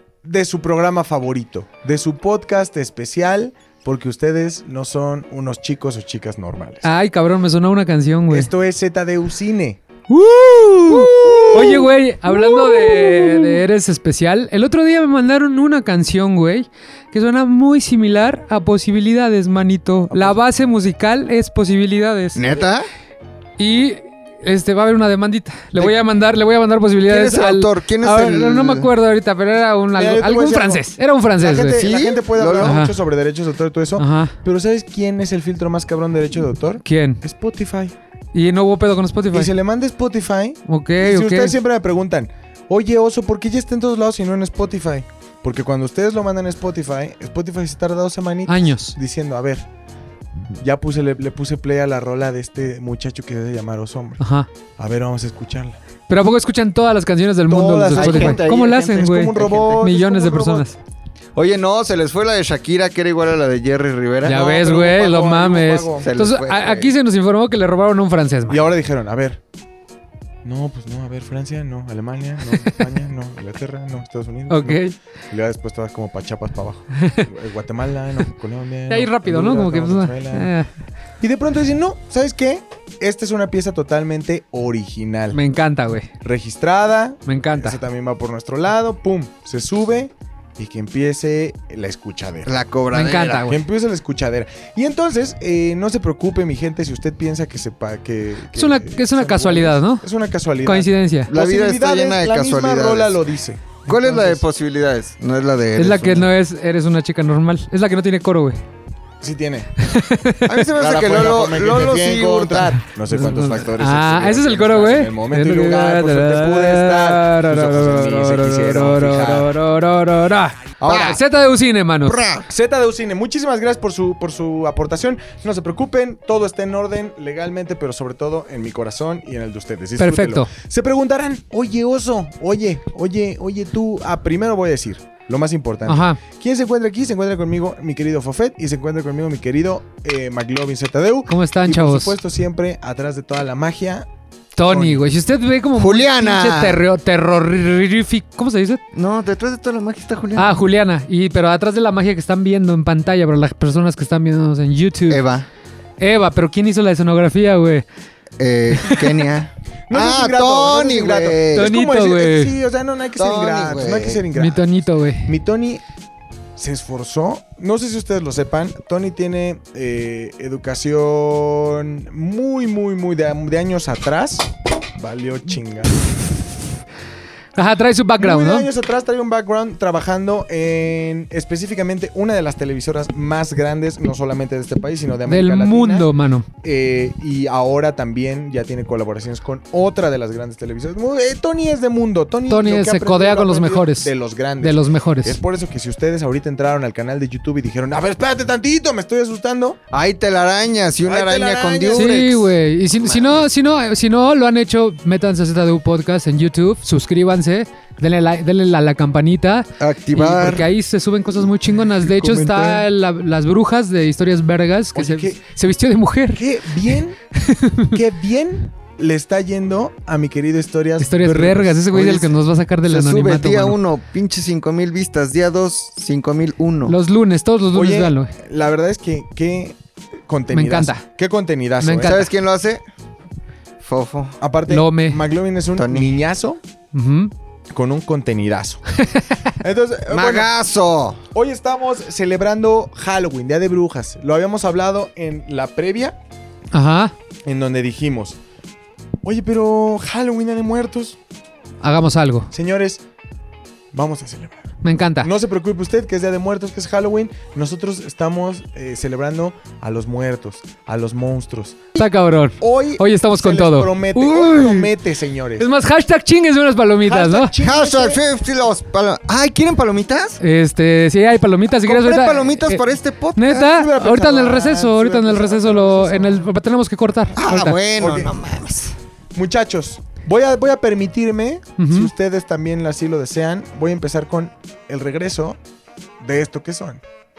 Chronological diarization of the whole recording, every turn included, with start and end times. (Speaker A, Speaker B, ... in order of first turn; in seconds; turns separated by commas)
Speaker A: 0.2-6.9, Speaker B: 6.8-8.5, Speaker A: 8.3-9.8, Speaker B: 10.1-22.6, Speaker A: 11.2-11.9, Speaker C: 22.4-22.9, Speaker B: 23.6-31.8, Speaker C: 27.1-28.9, Speaker A: 29.9-30.9, Speaker A: 31.4-37.9, Speaker C: 31.8-32.8, Speaker B: 32.6-33.0, Speaker B: 34.0-34.4, Speaker B: 36.9-37.2, Speaker B: 38.3-39.5, Speaker A: 39.3-49.7, Speaker B: 40.7-41.6, Speaker B: 48.5-49.0, Speaker A: 50.6-54.2, Speaker B: 54.2-54.5, Speaker A: 54.8-55.8, Speaker B: 56.1-60.8, Speaker A: 57.5-60.7, Speaker C: 57.9-59.9, Speaker C: 61.4-64.5, Speaker B: 64.2-68.6, Speaker A: 64.3-66.1, Speaker C: 66.0-66.9, Speaker A: 68.5-69.4, Speaker A: 70.5-80.5, Speaker B: 74.5-75.0, Speaker B: 78.9-80.7, Speaker A: 81.2-85.4, Speaker B: 85.3-86.1, Speaker A: 86.2-92.5, Speaker B: 87.3-87.8, Speaker C: 92.5-93.5, Speaker B: 92.9-93.7, Speaker A: 93.5-103.8, Speaker B: 98.6-100.1, Speaker B: 100.6-101.3, Speaker C: 101.3-103.2, Speaker C: 103.9-106.3, Speaker B: 103.9-104.4, Speaker B: 105.8-108.6, Speaker A: 109.2-109.7, Speaker B: 109.8-110.6, Speaker C: 110.5-112.8, Speaker A: 110.8-119.5, Speaker B: 113.1-122.2, Speaker C: 113.3-113.6, Speaker A: 120.8-121.2, Speaker C: 120.9-121.2, Speaker C: 122.0-122.5, Speaker A: 122.5-144.1, Speaker B: 130.0-130.5, Speaker B: 135.9-136.2, Speaker B: 141.3-142.2, Speaker B: 144.6-148.8, Speaker A: 144.6-145.0, Speaker C: 145.8-146.8, Speaker C: 148.9-150.6, Speaker B: 150.4-155.2, Speaker C: 155.1-155.5, Speaker B: 156.0-157.8, Speaker C: 158.4-161.7, Speaker B: 158.8-159.2, Speaker A: 159.9-165.8, Speaker B: 161.5-162.6, Speaker C: 163.2-164.3, Speaker B: 164.3-165.3, Speaker A: 166.6-175.9, Speaker B: 177.6-178.7, Speaker A: 178.2-186.1, Speaker B: 185.3-186.5, Speaker A: 186.6-199.8, Speaker B: 192.5-195.4, Speaker C: 199.9-203.5, Speaker A: 201.1-202.2, Speaker B: 201.9-218.0, Speaker C: 209.8-210.7, Speaker A: 211.8-212.9, Speaker A: 214.9-215.4, Speaker A: 216.3-217.2, Speaker A: 217.9-222.2, Speaker B: 221.0-223.8, Speaker C: 222.9-227.0, Speaker B: 226.9-228.3, Speaker A: 227.7-229.8, Speaker A: 230.3-232.2, Speaker B: 230.5-231.0, Speaker B: 231.8-232.3, Speaker C: 232.0-232.8, Speaker C: 233.8-234.4, Speaker A: 234.4-236.6, Speaker B: 234.7-235.2, Speaker C: 235.8-236.1, Speaker B: 236.9-237.3, Speaker A: 237.7-238.8, Speaker B: 239.0-239.3, Speaker A: 239.6-240.5, Speaker C: 240.1-241.2, Speaker A: 241.3-246.2, Speaker B: 246.7-247.1, Speaker A: 247.5-248.4, Speaker A: 249.2-251.2, Speaker B: 251.8-252.5, Speaker A: 252.5-253.0, Speaker A: 253.9-254.7, Speaker B: 254.8-255.3, Speaker A: 255.2-262.1, Speaker B: 262.0-264.9, Speaker A: 262.6-265.7, Speaker B: 265.6-267.5, Speaker A: 267.0-268.2, Speaker C: 267.6-270.4, Speaker B: 270.4-272.8, Speaker C: 271.9-273.7, Speaker B: 273.4-277.8, Speaker A: 273.6-276.5, Speaker C: 277.4-279.0, Speaker A: 278.0-278.3, Speaker A: 279.4-285.6, Speaker B: 281.8-282.1, Speaker A: 286.2-287.0